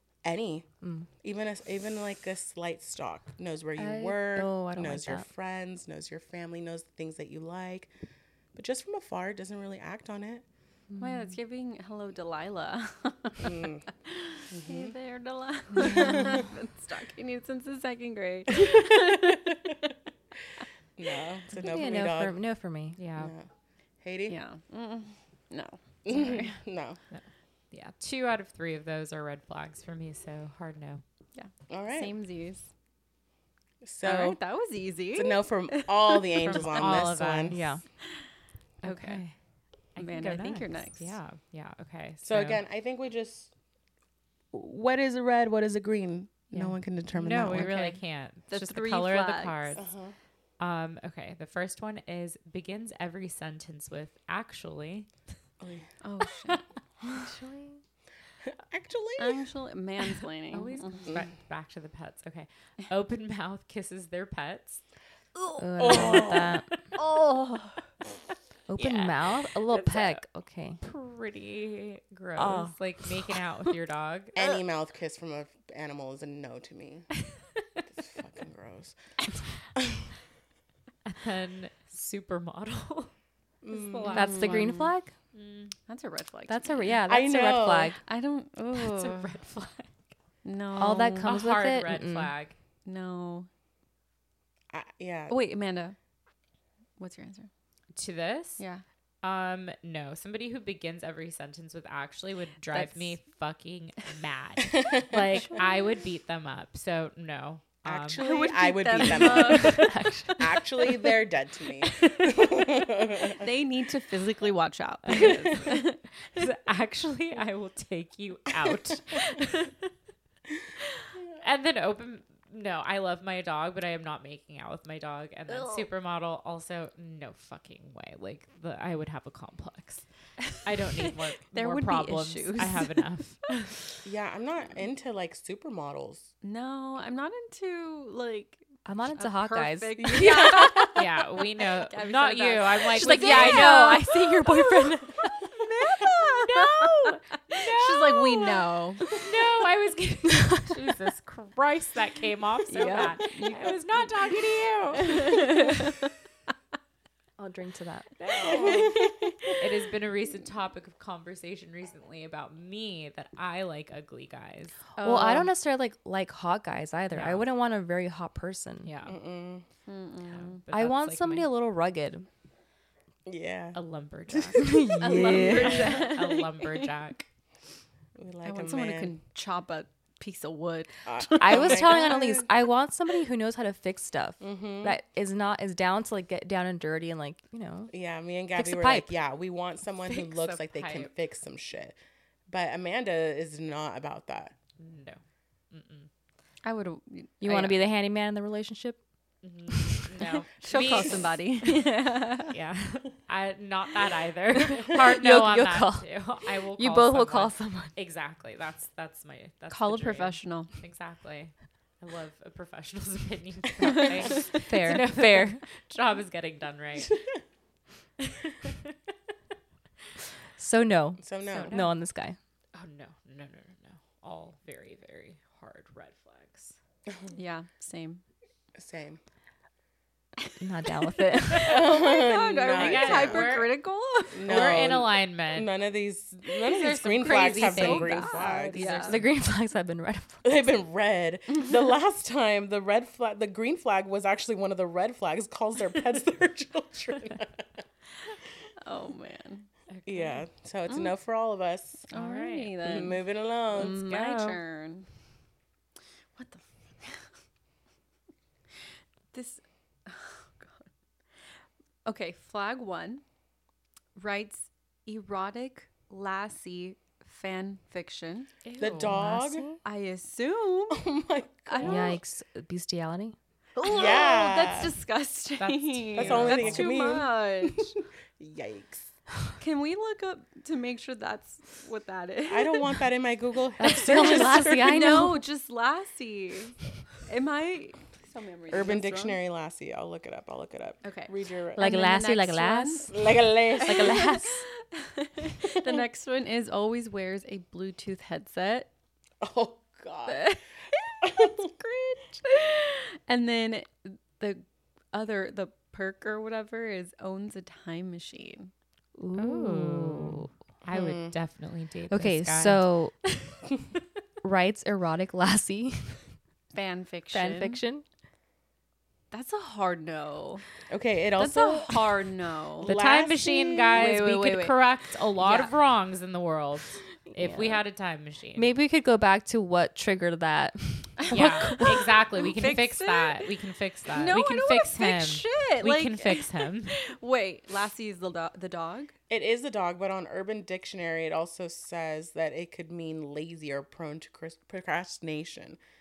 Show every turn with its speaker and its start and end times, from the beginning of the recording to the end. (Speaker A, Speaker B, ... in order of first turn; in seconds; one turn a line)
Speaker A: 0.2-0.7
Speaker B: 0.8-1.1
Speaker A: 1.2-7.9
Speaker B: 3.8-5.3
Speaker A: 8.6-10.4
Speaker B: 10.9-11.4
Speaker C: 11.0-19.6
Speaker A: 13.4-13.9
Speaker A: 14.5-14.9
Speaker A: 19.3-19.6
Speaker A: 21.0-22.4
Speaker B: 21.6-23.0
Speaker D: 23.0-23.3
Speaker A: 23.2-23.5
Speaker A: 24.0-24.4
Speaker C: 24.3-26.6
Speaker A: 26.1-27.0
Speaker D: 27.1-31.0
Speaker C: 31.4-32.7
Speaker A: 31.7-32.1
Speaker A: 33.8-34.4
Speaker C: 34.0-37.0
Speaker A: 35.1-37.6
Speaker D: 36.4-37.7
Speaker B: 37.5-37.8
Speaker C: 38.8-39.2
Speaker B: 38.8-39.3
Speaker D: 40.0-42.6
Speaker C: 40.0-41.2
Speaker A: 42.2-43.5
Speaker A: 44.5-47.7
Speaker D: 46.5-49.9
Speaker C: 47.5-49.8
Speaker A: 49.8-50.1
Speaker D: 50.6-55.1
Speaker A: 55.6-55.9
Speaker C: 56.0-56.6
Speaker B: 57.0-57.8
Speaker A: 58.5-59.5
Speaker C: 59.2-61.1
Speaker D: 60.5-64.8
Speaker C: 65.4-67.8
Speaker B: 65.6-66.7
Speaker A: 65.8-66.6
Speaker B: 68.7-70.8
Speaker D: 68.8-70.2
Speaker D: 70.8-74.4
Speaker B: 72.4-72.7
Speaker A: 74.3-77.2
Speaker A: 77.9-79.0
Speaker A: 79.7-80.1
Speaker D: 81.1-83.1
Speaker A: 83.6-84.3
Speaker D: 83.7-85.8
Speaker B: 84.1-85.1
Speaker C: 84.2-84.9
Speaker C: 85.9-86.8
Speaker B: 86.5-88.0
Speaker A: 87.1-88.0
Speaker C: 88.0-89.3
Speaker D: 88.8-89.9
Speaker C: 90.4-91.4
Speaker B: 90.8-92.3
Speaker D: 91.2-92.5
Speaker C: 92.8-93.5
Speaker A: 94.7-95.4
Speaker C: 95.3-96.0
Speaker C: 97.0-97.5
Speaker D: 98.0-98.6
Speaker C: 98.6-98.8
Speaker D: 99.2-108.2
Speaker C: 102.7-103.2
Speaker A: 104.7-105.6
Speaker C: 105.4-105.7
Speaker A: 107.8-113.5
Speaker C: 108.2-109.8
Speaker B: 109.0-111.0
Speaker D: 109.2-109.9
Speaker C: 113.2-116.0
Speaker D: 115.1-115.8
Speaker A: 115.1-115.6
Speaker D: 116.3-119.5
Speaker D: 121.4-133.7
Speaker C: 125.5-125.9
Speaker C: 131.1-133.0
Speaker A: 134.0-136.3
Speaker C: 136.4-141.0
Speaker B: 138.8-140.4
Speaker A: 140.0-141.0
Speaker D: 140.3-144.5
Speaker C: 141.6-149.1
Speaker B: 142.9-144.3
Speaker D: 146.1-155.8
Speaker B: 150.4-150.8
Speaker C: 152.7-153.8
Speaker C: 155.0-156.1
Speaker B: 157.4-158.1
Speaker D: 158.2-159.0
Speaker A: 158.5-159.1
Speaker C: 158.5-159.5
Speaker D: 159.6-164.8
Speaker C: 165.0-165.5
Speaker B: 165.0-168.9
Speaker D: 167.1-167.5
Speaker D: 168.8-169.2
Speaker A: 169.1-169.7
Speaker C: 169.9-170.6
Speaker D: 170.3-171.5
Speaker B: 170.7-172.3
Speaker A: 173.3-175.9
Speaker D: 173.8-177.2
Speaker B: 174.6-175.9
Speaker C: 174.9-176.9
Speaker A: 178.2-179.1
Speaker C: 178.4-181.8
Speaker A: 181.1-182.5
Speaker B: 181.4-187.9
Speaker A: 184.4-185.0
Speaker A: 187.9-191.9
Speaker B: 188.6-189.1
Speaker D: 190.1-191.1
Speaker A: 192.5-194.5
Speaker D: 194.8-196.1
Speaker C: 196.6-197.4
Speaker B: 197.4-199.0
Speaker D: 197.4-197.8
Speaker D: 199.4-201.4
Speaker C: 200.6-202.6
Speaker D: 202.5-217.2
Speaker B: 204.7-206.1
Speaker B: 206.8-207.9
Speaker C: 209.7-210.7
Speaker C: 214.2-214.6
Speaker B: 214.6-215.6
Speaker D: 218.3-218.8
Speaker B: 220.6-222.4
Speaker A: 221.2-221.8
Speaker C: 221.5-221.9
Speaker D: 222.7-226.8
Speaker C: 227.3-228.2
Speaker A: 228.8-229.2
Speaker B: 230.6-231.8
Speaker A: 231.6-233.5
Speaker C: 231.6-234.8
Speaker D: 232.7-233.8
Speaker A: 234.3-239.2
Speaker D: 234.4-235.7
Speaker D: 236.6-239.3
Speaker C: 237.2-239.2
Speaker B: 238.9-240.7
Speaker A: 240.4-247.8
Speaker C: 248.8-249.7
Speaker D: 249.9-250.4
Speaker A: 250.1-252.1
Speaker C: 252.1-255.1
Speaker D: 252.1-252.9
Speaker A: 252.8-254.0
Speaker D: 253.7-254.6
Speaker C: 256.4-257.4
Speaker C: 259.3-260.9
Speaker C: 262.1-263.2
Speaker C: 264.2-268.5
Speaker D: 268.6-269.2
Speaker A: 268.8-269.7
Speaker B: 269.0-269.8
Speaker C: 269.8-271.1
Speaker A: 270.9-272.1
Speaker C: 271.7-272.2
Speaker B: 271.8-273.4
Speaker C: 273.8-277.9
Speaker A: 273.9-274.9
Speaker D: 275.6-276.9
Speaker A: 276.1-279.1
Speaker C: 279.6-282.9
Speaker A: 282.5-285.3
Speaker B: 283.8-285.4
Speaker C: 284.2-289.4
Speaker A: 288.7-291.9
Speaker C: 291.0-293.1
Speaker B: 291.8-293.3
Speaker A: 293.1-294.4
Speaker B: 293.8-294.6
Speaker C: 293.9-298.9
Speaker A: 299.4-300.5
Speaker C: 300.3-308.7
Speaker A: 301.2-301.6
Speaker B: 309.2-310.5
Speaker D: 309.4-313.4
Speaker A: 310.9-311.3
Speaker B: 312.1-313.2
Speaker B: 314.4-316.2
Speaker C: 316.7-317.8
Speaker B: 317.3-318.1
Speaker C: 319.3-320.6
Speaker A: 320.9-322.2
Speaker C: 321.4-323.0
Speaker A: 322.8-324.1
Speaker D: 322.8-328.7
Speaker C: 323.9-324.8
Speaker B: 327.3-327.8
Speaker B: 328.6-332.1
Speaker C: 331.2-333.4
Speaker D: 331.3-336.9
Speaker C: 334.1-339.1
Speaker A: 339.3-345.8